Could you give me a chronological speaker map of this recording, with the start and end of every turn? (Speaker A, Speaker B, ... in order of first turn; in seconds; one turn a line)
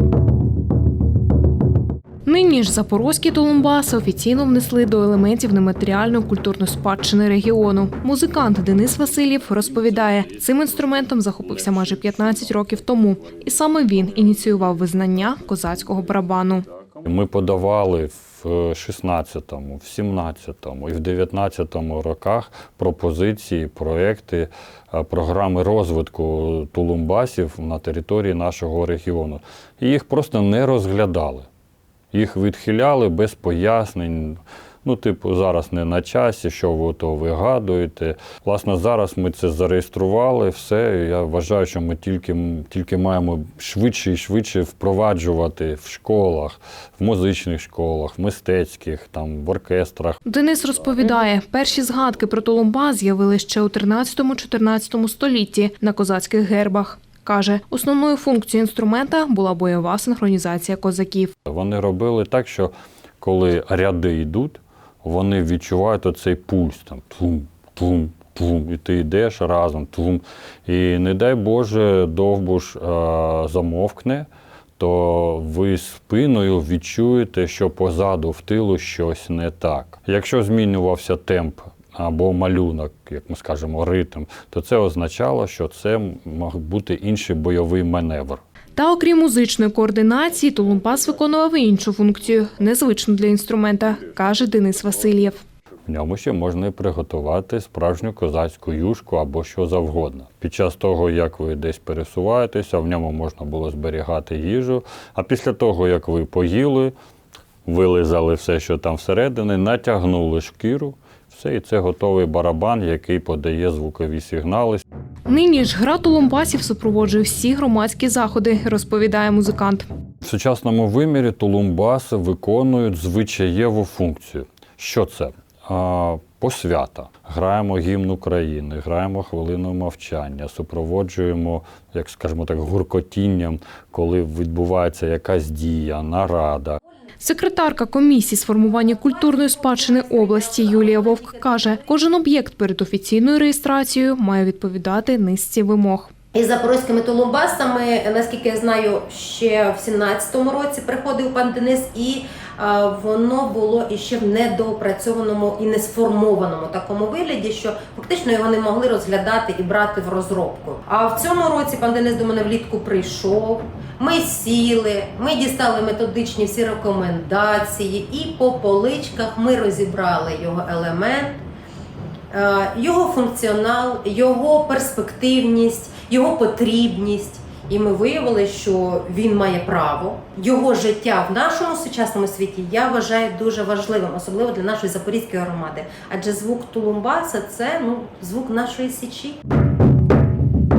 Speaker A: 2.3-16.7
Speaker B: 17.0-31.5
Speaker B: 32.1-50.2
Speaker A: 50.3-61.3
Speaker B: 61.5-88.4
Speaker A: 88.8-95.4
Speaker B: 95.9-106.9
Speaker B: 107.7-114.8
Speaker A: 115.3-119.9
Speaker B: 120.2-136.8
Speaker A: 137.2-146.1
Speaker C: 138.7-141.8
Speaker C: 146.3-171.4
Speaker C: 172.3-189.4